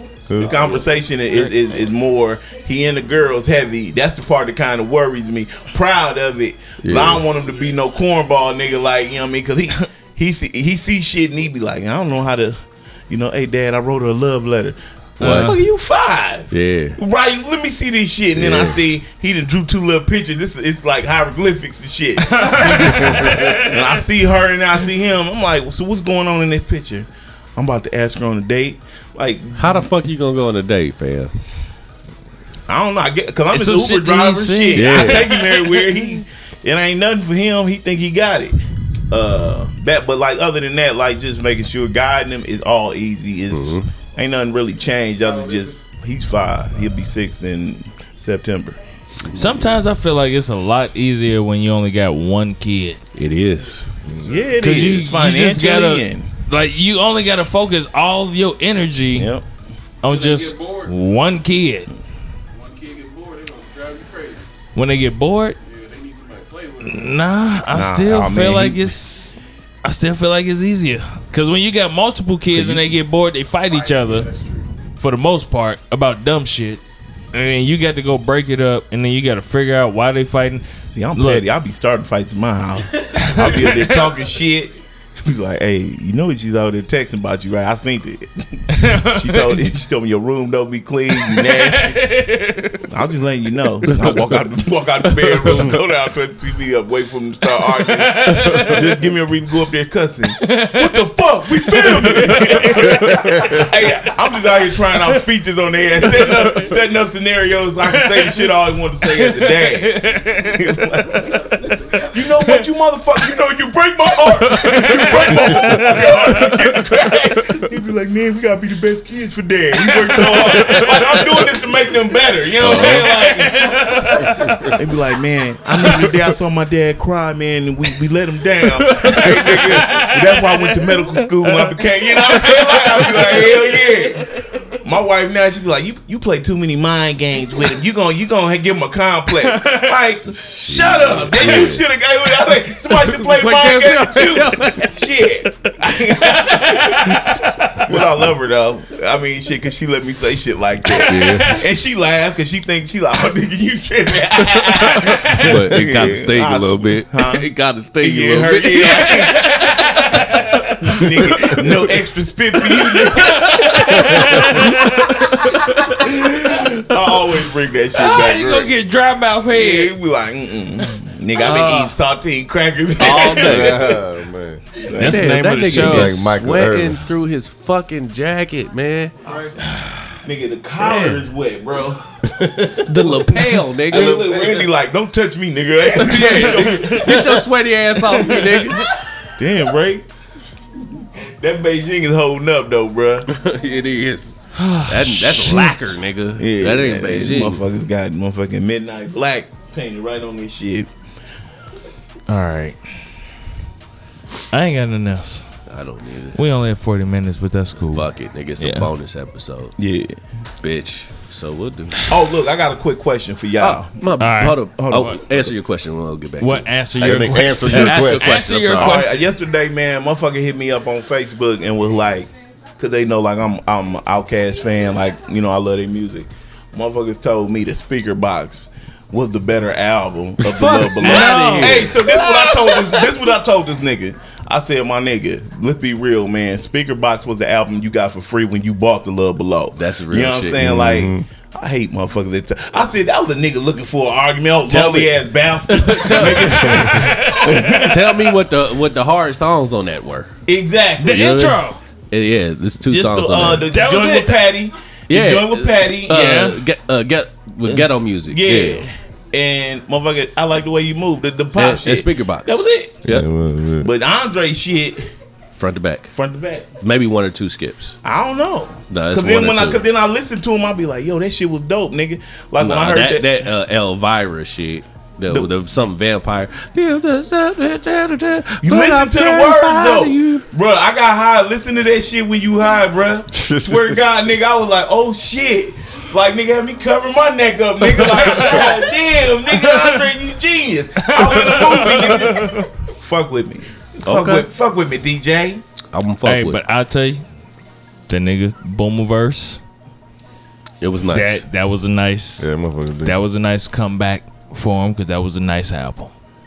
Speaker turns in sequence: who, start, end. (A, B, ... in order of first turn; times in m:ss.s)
0:00.3-0:00.8 A
0:00.4-0:29.9 B
0:06.8-0:07.2 C
0:15.2-0:15.6 D
0:15.2-0:15.6 C
0:16.5-0:17.0 C
0:18.3-0:18.8 C
0:22.2-0:24.0 D
0:23.0-0:23.6 A
0:29.6-0:31.3 C
0:32.7-0:38.6 B
0:33.5-0:36.0 D
0:34.7-0:35.3 C
0:39.1-0:48.8 B
0:43.5-0:43.9 C
0:45.2-0:45.8 E
0:49.2-0:49.8 C
0:49.3-0:53.0 D
0:53.1-0:54.0 C
0:54.1-0:56.3 B
0:54.2-0:54.5 E
0:54.6-0:59.3 D
0:59.2-0:59.4 B
1:00.0-1:01.9 D
1:00.0-1:01.0 E
1:02.5-1:04.5 E
1:04.7-1:05.6 D
1:05.6-1:07.2 E
1:06.8-1:14.3 D
1:07.7-1:08.9 B
1:12.5-1:12.8 B
1:13.7-1:14.6 E
1:15.0-1:21.4 D
1:21.0-1:32.0 B
1:23.2-1:24.1 D
1:28.7-1:29.6 D
1:31.1-1:32.9 D
1:32.9-1:51.4 B
1:33.9-1:34.4 C
1:35.2-1:35.7 C
1:37.9-1:38.9 D
1:38.3-1:38.7 C
1:40.4-1:41.0 D
1:41.5-1:43.6 D
1:42.0-1:43.2 C
1:43.3-1:43.6 A
1:46.1-1:46.6 D
1:47.9-1:48.5 D
1:49.1-1:50.7 D
1:51.1-1:52.2 E
1:52.1-2:37.5 B
1:52.4-1:52.6 D
1:54.4-1:55.2 C
1:54.5-1:56.6 D
2:00.2-2:00.8 D
2:00.2-2:01.3 C
2:02.6-2:03.2 C
2:02.7-2:04.7 D
2:04.2-2:04.7 A
2:05.8-2:06.2 C
2:08.6-2:09.8 C
2:09.2-2:14.4 D
2:19.4-2:20.1 D
2:20.6-2:21.8 C
2:22.9-2:25.1 C
2:26.2-2:27.9 D
2:30.8-2:31.6 D
2:30.9-2:31.5 C
2:34.4-2:39.7 C
2:35.5-2:35.8 A
2:38.0-2:39.7 B
2:38.8-2:40.9 D
2:40.5-2:41.9 C
2:40.8-2:44.8 B
2:43.1-2:46.1 D
2:43.2-2:44.0 C
2:44.0-2:44.5 A
2:44.5-2:46.0 C
2:46.0-2:48.7 B
2:47.9-2:49.9 D
2:49.5-2:54.0 B
2:50.8-2:51.9 D
2:53.0-2:53.8 C
2:53.4-2:54.6 A
2:54.8-2:55.2 B
2:54.9-2:56.3 D
2:55.0-2:59.1 C
2:55.7-2:57.0 A
2:59.2-2:59.6 B
2:59.6-3:00.1 D
3:00.2-3:07.4 B
3:00.8-3:01.2 C
3:02.3-3:03.3 A
3:02.8-3:04.3 C
3:03.9-3:04.7 A
3:05.9-3:08.9 C
3:06.3-3:07.3 D
3:08.0-3:08.9 D
3:08.1-3:10.0 B
3:11.2-3:13.3 B
3:13.3-3:14.3 C
3:14.5-3:16.0 D
3:14.8-3:17.6 C
3:16.4-3:20.9 B
3:22.3-3:22.8 D
3:24.5-3:25.5 D
3:25.7-3:26.4 C
3:26.3-3:28.1 D
3:27.8-3:29.7 C
3:28.6-3:28.9 D
3:29.8-3:30.2 B
3:30.6-3:32.0 C
3:32.1-3:34.0 B
3:33.6-3:39.1 C
3:34.2-3:35.0 D
3:34.7-3:35.5 B
3:36.4-3:39.3 D
3:37.0-3:38.4 A
3:38.7-4:08.0 B
3:50.4-3:52.1 C
3:51.0-3:52.0 D
3:59.7-4:00.7 C
4:00.6-4:01.2 A
4:04.7-4:05.2 C
4:05.7-4:10.3 C
4:06.2-4:08.4 D
4:10.5-4:11.3 B
4:11.0-4:11.8 D
4:11.0-4:11.6 C
4:12.1-4:13.7 C
4:12.9-4:16.5 B
4:13.7-4:14.4 D
4:15.1-4:18.8 C
4:16.1-4:16.6 D
4:17.6-4:23.0 B
4:21.6-4:23.3 C
4:23.0-4:23.9 A
4:23.8-4:25.1 B
4:25.5-4:26.1 C
4:26.1-4:26.7 B
4:26.8-4:28.0 C
4:28.0-4:33.4 B
4:28.9-4:29.8 C
4:32.6-4:40.4 C
4:38.6-4:55.6 B
4:43.3-4:44.0 A
4:48.0-4:50.1 D
4:51.0-4:52.7 D
4:54.0-4:54.5 C
4:55.9-4:56.6 C
4:56.2-4:57.2 D
4:58.1-4:59.6 D
5:00.8-5:01.4 C
5:01.1-5:02.5 D
5:02.4-5:03.2 A
5:03.0-5:06.1 D